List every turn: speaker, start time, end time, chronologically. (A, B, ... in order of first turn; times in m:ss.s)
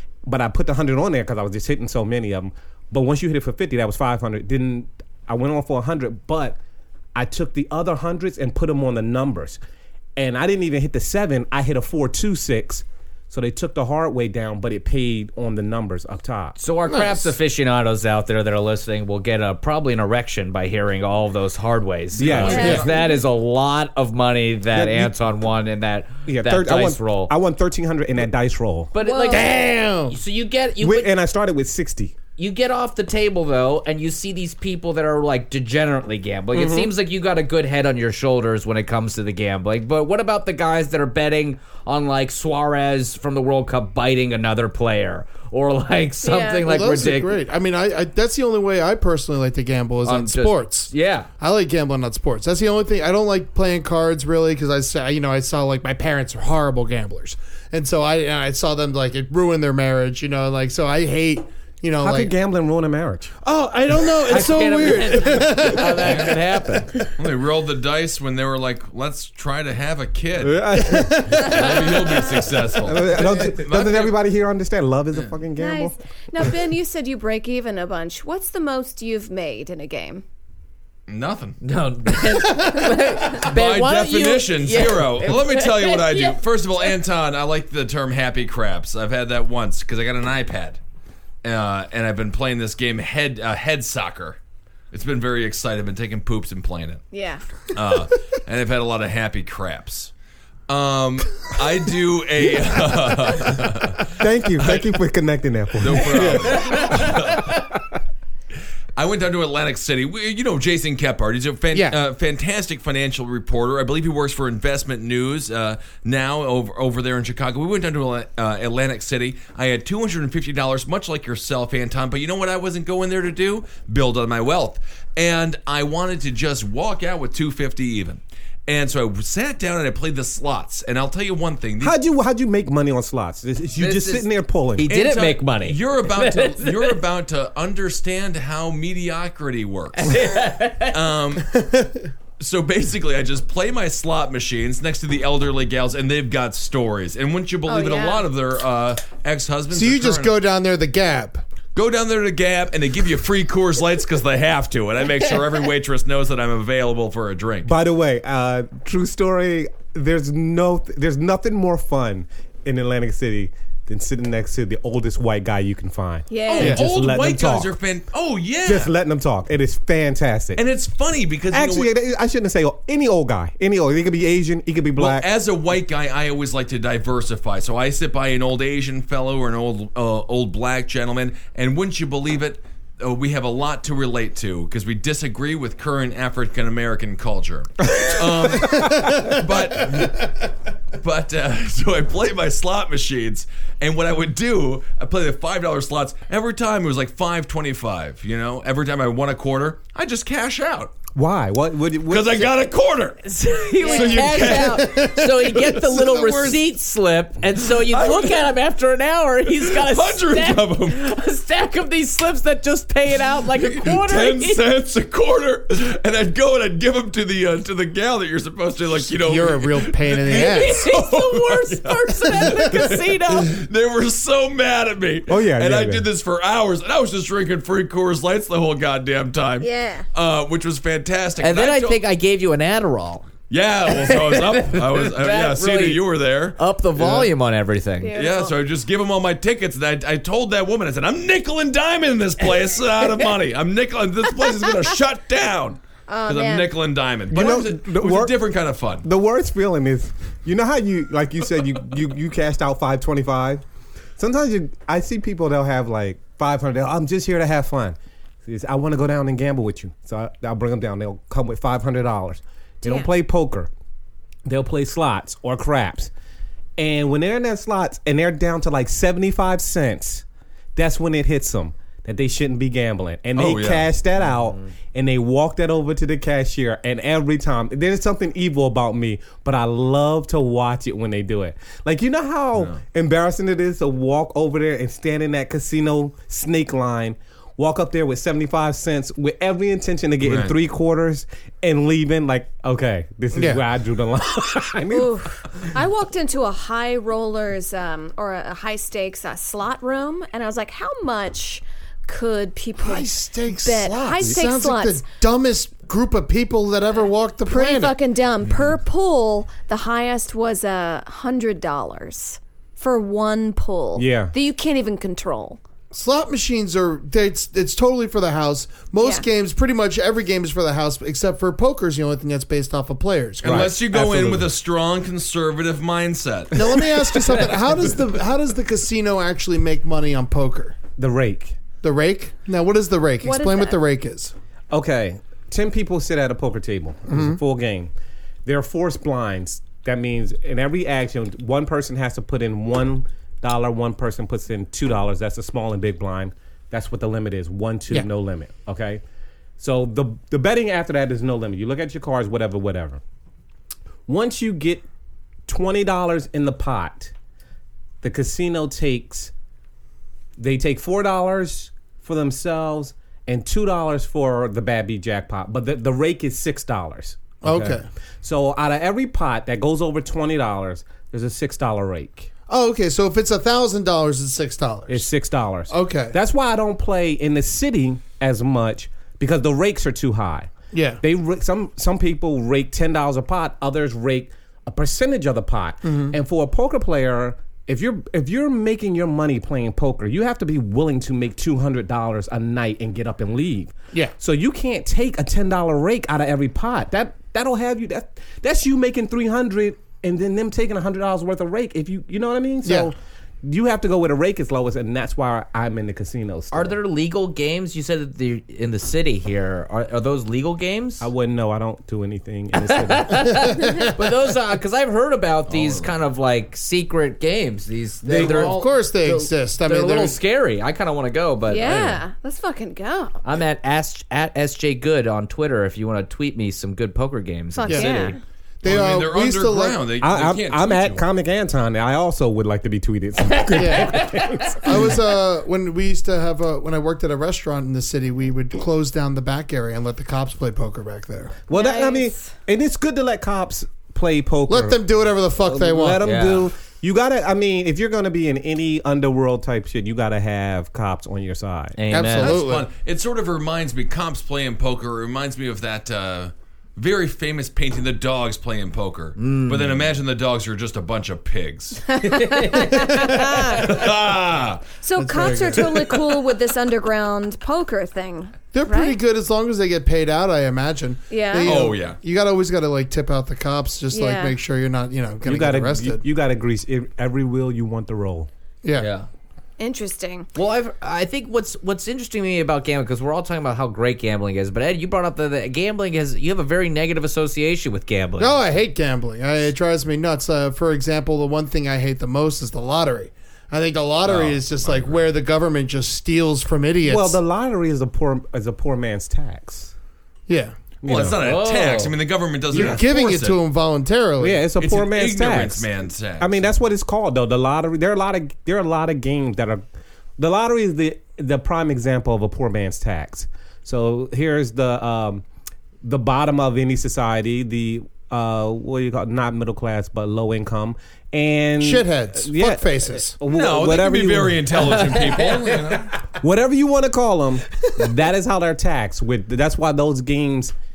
0:00.3-0:06.6 A
0:07.2-0:09.6 A
0:10.2-0:16.6 A
0:16.6-0:27.3 B
0:16.9-0:17.3 C
0:22.2-0:22.9 D
0:22.2-0:23.0 A
0:22.5-0:22.8 E
0:24.7-0:25.2 A
0:26.3-0:28.9 A
0:28.9-0:31.1 B
0:29.0-0:29.5 E
0:29.3-0:30.2 C
0:30.8-0:32.2 A
0:32.4-0:47.3 B
0:36.5-0:36.9 A
0:46.2-0:46.7 E
0:46.6-1:02.3 C
0:50.0-0:51.3 B
1:02.0-1:03.4 A
1:03.4-1:07.0 C
1:04.2-1:07.0 B
1:07.2-1:14.2 D
1:10.4-1:11.7 A
1:10.8-1:12.3 C
1:12.8-1:16.0 A
1:15.6-1:20.2 E
1:21.1-1:21.6 D
1:21.6-1:26.4 B
1:22.3-1:22.8 C
1:23.4-1:30.8 D
1:31.4-1:34.4 D
1:34.9-1:37.1 D
1:37.1-1:37.4 E
1:37.7-1:40.1 D
1:40.7-1:44.9 D
1:44.2-1:47.3 A
1:45.8-1:47.6 D
1:49.0-2:12.0 D
1:51.7-1:52.0 C
2:11.8-2:14.9 A
2:13.8-2:17.0 B
2:14.9-2:20.3 D
2:20.0-2:21.0 B
2:20.9-2:21.5 D
2:21.5-2:22.1 C
2:22.4-2:30.4 D
2:27.7-2:28.3 E
2:29.7-2:31.4 C
2:31.8-2:37.7 D
2:37.6-2:47.8 A
2:46.3-2:47.0 E
2:46.5-2:48.9 D
2:48.6-2:50.6 A
2:50.6-2:51.9 D
2:51.5-2:55.3 A
2:55.0-3:10.3 D
3:08.7-3:10.1 C
3:11.0-3:21.0 D
3:21.2-3:22.5 A
3:22.1-3:23.2 D
3:23.2-3:34.6 B
3:23.8-3:25.1 D
3:23.8-3:24.5 E
3:24.3-3:26.6 C
3:27.9-3:28.5 D
3:29.6-3:31.1 D
3:33.5-3:52.0 D
3:39.1-3:40.8 C
3:40.3-3:43.6 B
3:45.3-3:46.1 A
3:49.6-3:50.1 E
3:51.4-3:53.3 B
3:53.5-3:57.3 D
3:53.9-3:56.0 B
3:56.6-3:58.2 B
3:58.0-3:58.6 E
3:58.1-4:09.1 D
4:06.1-4:06.7 E
4:07.3-4:08.4 A
4:09.0-4:13.6 A
4:14.2-4:23.7 A
4:24.4-4:26.1 A
4:26.8-4:30.2 A
4:30.8-4:55.6 A
4:33.4-4:33.9 D
4:42.6-4:42.8 D
4:50.2-4:50.6 D
4:53.3-4:53.6 C
4:54.9-5:05.0 E
5:02.8-5:08.0 C
5:07.5-5:15.6 E
5:14.0-5:14.3 A
5:15.9-5:23.7 C
5:23.4-5:27.3 D
5:23.4-5:24.5 A
5:26.5-5:30.8 C
5:31.0-5:31.6 A
5:31.8-5:34.3 C
5:33.2-5:33.8 E
5:34.7-5:37.9 A
5:37.1-5:37.4 C
5:38.4-5:49.0 A
5:49.6-5:53.0 A
5:54.1-5:54.8 A
5:55.5-5:57.1 A
5:58.0-5:59.3 A
6:00.4-6:12.3 A
6:07.4-6:07.8 C
6:12.5-6:15.1 C
6:14.9-6:46.8 A
6:15.7-6:16.2 C
6:20.7-6:21.0 C
6:25.8-6:26.2 C
6:42.6-6:42.9 C
6:46.5-6:51.1 B
6:51.0-6:53.4 A
6:52.6-7:02.0 B
6:53.3-6:53.9 C
6:55.5-6:55.9 D
6:58.0-7:00.2 C
7:01.5-7:03.2 E
7:03.2-7:08.2 B
7:07.5-7:08.2 E
7:07.7-7:08.1 C
7:08.6-7:09.8 C
7:08.6-7:11.0 D
7:10.0-7:15.0 A
7:13.6-7:21.4 C
7:21.5-7:24.8 A
7:21.5-7:22.3 E
7:24.5-7:26.0 C
7:25.4-7:31.8 A
7:26.0-7:26.5 B
7:31.8-7:32.4 B
7:31.9-7:32.7 C
7:32.2-7:41.9 D
7:39.2-7:39.9 B
7:42.0-7:43.8 E
7:42.0-7:43.2 B
7:43.5-7:44.7 D
7:44.8-7:49.0 E
7:45.0-7:46.0 C
7:48.5-7:56.0 C
7:51.1-7:51.5 E
7:51.4-7:52.0 D
7:53.9-7:54.4 E
7:55.2-7:58.3 A
7:58.6-7:58.9 C
7:58.8-7:59.1 B
7:59.6-8:00.3 E
8:00.4-8:08.4 B
8:08.2-8:17.2 C
8:14.0-8:15.1 D
8:16.8-8:19.7 A
8:20.3-8:20.6 C
8:20.8-8:21.2 A
8:20.9-8:23.4 D
8:21.0-8:22.0 B
8:22.5-8:24.5 C
8:24.2-8:29.6 A
8:24.6-8:26.4 D
8:30.2-8:35.2 A
8:35.8-8:44.6 A
8:41.6-8:43.2 C
8:43.3-8:46.0 D
8:44.6-8:45.6 B
8:46.2-8:50.5 A